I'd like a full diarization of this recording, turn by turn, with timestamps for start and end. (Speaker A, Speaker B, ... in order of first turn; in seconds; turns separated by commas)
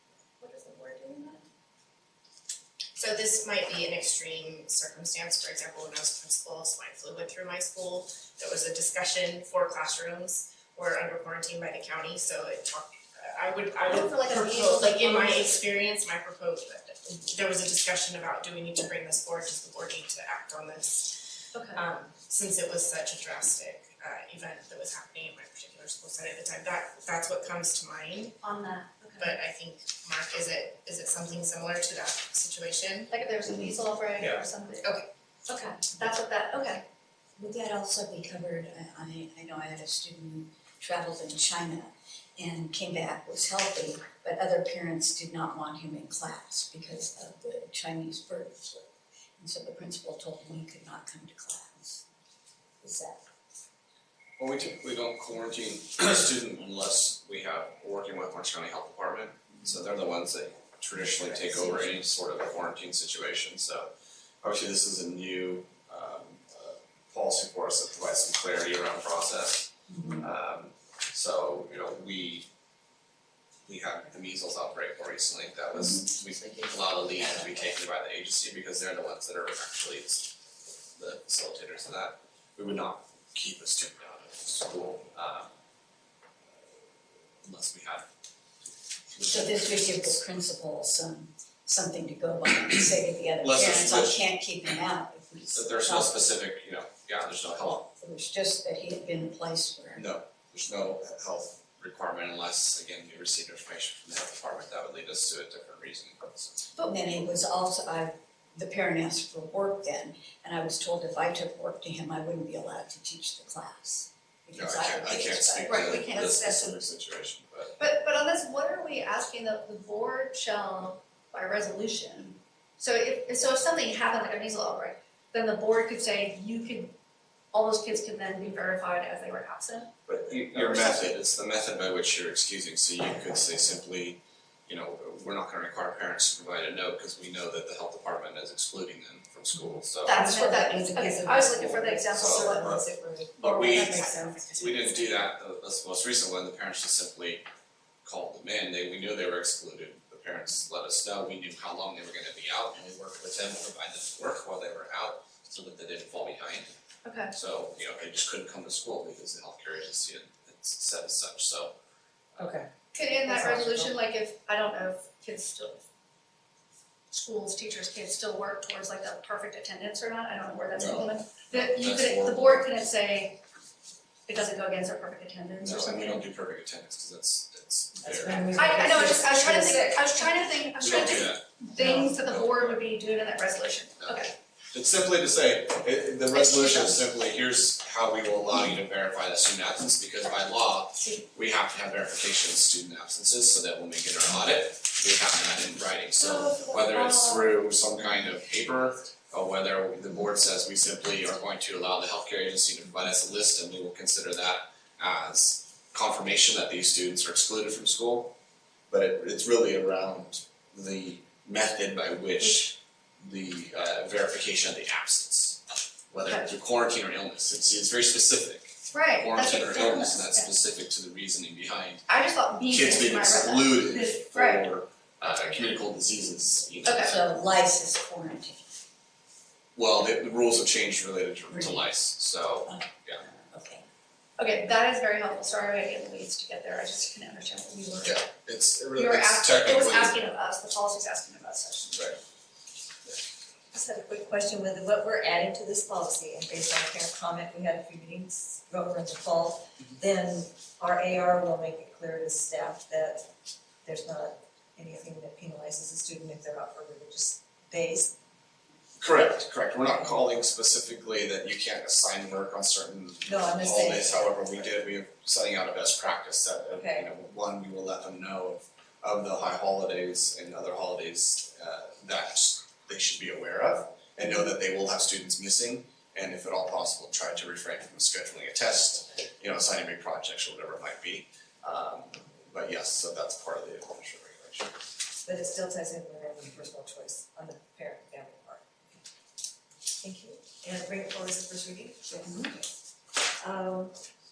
Speaker A: 0.4-1.4, Speaker B: 3.0-28.4, Speaker A: 13.8-15.6, Speaker A: 21.5-21.8, Speaker A: 28.4-29.4, Speaker B: 29.2-33.1, Speaker A: 33.1-36.8, Speaker B: 34.2-35.0, Speaker C: 37.4-48.9, Speaker C: 49.4-52.0, Speaker C: 52.8-53.2, Speaker D: 54.4-63.9, Speaker C: 61.0-62.0, Speaker D: 64.4-72.5, Speaker C: 69.9-70.3, Speaker D: 73.6-80.4, Speaker D: 81.0-85.5, Speaker D: 87.4-88.1, Speaker D: 88.6-90.3, Speaker C: 89.2-96.3, Speaker D: 93.4-94.2, Speaker D: 95.5-97.9, Speaker C: 97.8-100.1, Speaker D: 100.0-106.7, Speaker C: 106.8-116.0, Speaker D: 114.5-117.8, Speaker A: 115.7-116.8, Speaker A: 117.8-126.9, Speaker A: 127.5-129.9, Speaker D: 130.1-140.2, Speaker E: 130.5-130.9, Speaker A: 140.0-142.8, Speaker E: 140.1-144.4, Speaker D: 142.2-142.8, Speaker D: 143.4-147.4, Speaker A: 143.4-145.2, Speaker D: 148.0-156.7, Speaker A: 157.0-157.3, Speaker D: 157.3-161.7, Speaker E: 162.4-162.7, Speaker A: 162.9-165.8, Speaker E: 163.3-163.9, Speaker A: 167.1-173.4, Speaker D: 170.7-172.7, Speaker A: 174.3-176.2, Speaker D: 175.6-178.7, Speaker E: 178.0-180.2, Speaker A: 178.5-184.3, Speaker D: 180.8-181.6, Speaker E: 181.8-182.2, Speaker D: 182.2-182.8, Speaker D: 184.0-208.3, Speaker A: 186.3-187.0, Speaker A: 196.2-197.5, Speaker D: 208.9-222.0, Speaker A: 218.9-220.5, Speaker A: 222.1-224.7, Speaker D: 222.7-227.5, Speaker A: 226.8-227.2, Speaker C: 227.0-228.6, Speaker D: 229.7-233.2, Speaker C: 231.5-231.8, Speaker C: 232.7-233.8, Speaker A: 234.4-238.2, Speaker D: 238.0-240.2, Speaker A: 238.9-242.2, Speaker E: 243.7-253.3, Speaker E: 253.8-258.1, Speaker D: 259.0-284.8, Speaker E: 263.2-264.5, Speaker E: 266.7-267.1, Speaker E: 285.2-289.0, Speaker E: 290.0-292.7, Speaker E: 293.4-293.9